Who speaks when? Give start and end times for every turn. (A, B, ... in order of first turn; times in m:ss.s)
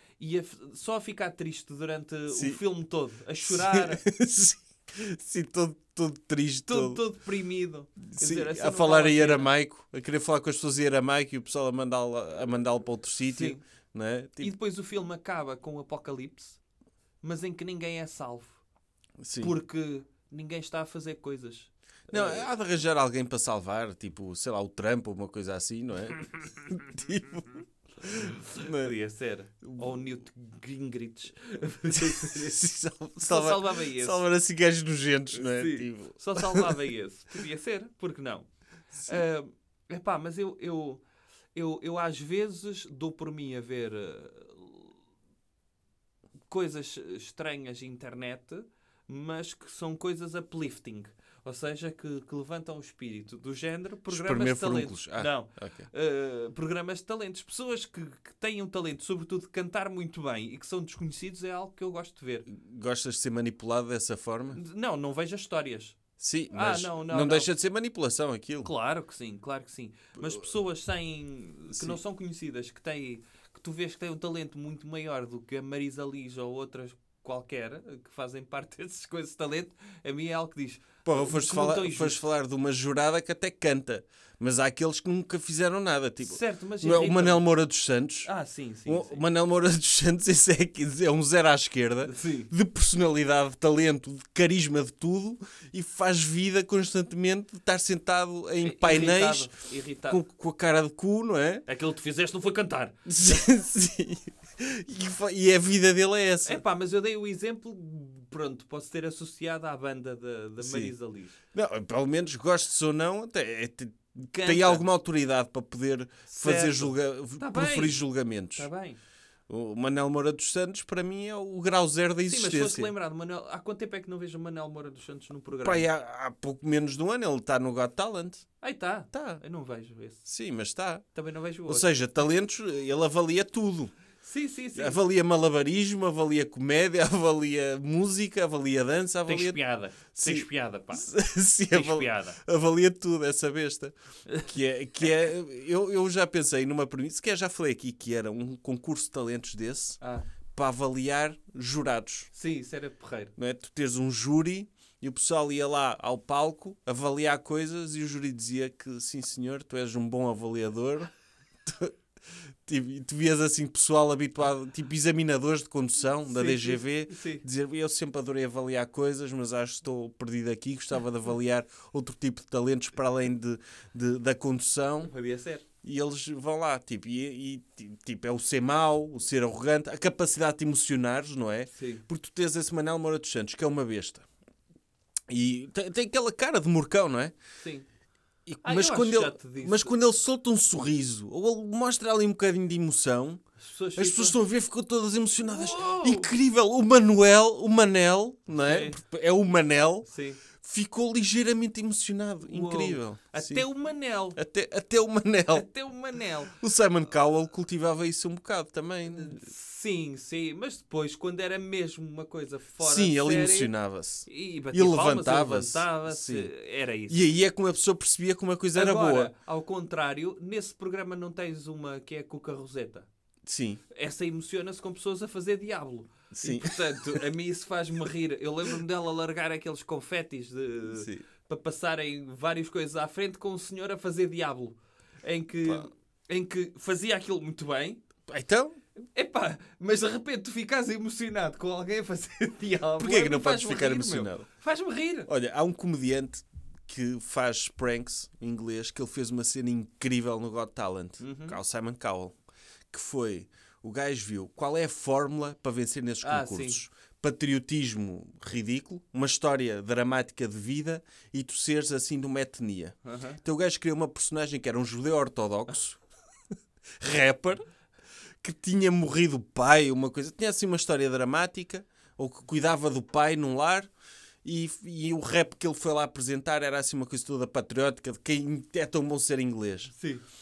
0:00.2-0:04.0 A
0:02.3-0:02.6 B
0:03.4-0:07.0 B
0:06.7-0:09.5 A
0:08.0-0:14.5 B
0:13.3-0:13.6 A
0:14.4-0:16.6 A
0:17.2-0:18.6 A
0:19.2-0:19.5 B
0:19.4-0:22.5 A
0:22.1-0:28.9 B
0:28.3-0:32.6 A
0:29.6-0:30.1 B
0:31.9-0:36.8 B
0:33.2-0:34.2 A
0:35.3-0:38.5 A
0:39.0-0:41.0 A
0:41.6-0:45.0 A
0:46.5-1:02.5 A
0:54.1-0:55.9 B
1:02.5-1:04.6 B
1:04.5-1:06.0 A
1:06.2-1:08.7 B
1:06.5-1:07.5 A
1:08.6-1:22.2 A
1:11.7-1:12.0 B
1:21.0-1:28.3 B
1:26.2-1:27.5 A
1:28.2-1:29.2 A
1:28.9-1:39.5 B
1:32.0-1:32.5 A
1:38.6-1:40.2 A
1:40.1-1:41.6 B
1:41.7-1:43.0 A
1:43.1-1:46.6 B
1:46.4-1:51.4 A
1:50.6-1:50.9 B
1:51.5-1:58.7 B
1:54.3-1:54.9 A
1:56.3-1:59.0 A
1:59.5-2:02.9 B
2:02.2-2:05.9 A
2:05.6-2:08.5 B
2:08.6-2:10.3 A
2:09.1-2:09.4 B
2:10.3-2:11.0 B
2:11.1-2:12.0 A
2:11.7-2:13.9 B
2:14.2-2:15.0 A
2:14.8-2:19.6 B
2:19.3-2:21.1 A
2:20.2-2:30.0 B
2:21.7-2:22.4 A
2:30.0-2:30.2 A
2:30.6-2:32.3 B
2:32.3-2:33.3 A
2:33.4-2:41.1 B
2:41.6-2:41.9 B
2:42.7-2:55.1 B
2:46.2-2:47.4 A
2:55.0-2:55.6 A
2:55.8-3:04.2 B
3:01.7-3:02.0 A
3:05.3-3:07.3 B
3:07.6-3:07.9 A
3:08.5-3:13.4 B
3:08.6-3:10.0 A
3:13.6-3:14.4 A
3:14.0-3:20.1 B
3:15.4-3:16.3 A
3:18.6-3:19.0 A
3:20.0-3:20.4 A
3:20.6-3:23.7 B
3:22.4-3:24.4 A
3:24.4-3:25.7 B
3:25.5-3:26.5 A
3:26.5-3:29.4 B
3:29.1-3:33.7 A
3:32.8-3:36.5 B
3:34.3-3:37.2 A
3:37.1-3:39.3 B
3:38.7-3:43.1 A
3:43.5-3:43.8 B
3:43.9-3:58.0 A
3:46.4-3:47.2 B
3:50.9-3:51.2 B
3:58.3-3:58.8 B
3:59.0-4:05.3 A
4:03.0-4:04.5 B
4:05.3-4:12.4 B
4:11.2-4:11.6 A
4:12.9-4:26.0 B
4:16.2-4:16.8 A
4:23.0-4:23.4 A
4:27.0-4:27.6 B
4:28.4-4:33.9 B
4:34.4-4:39.9 B
4:39.9-4:40.2 A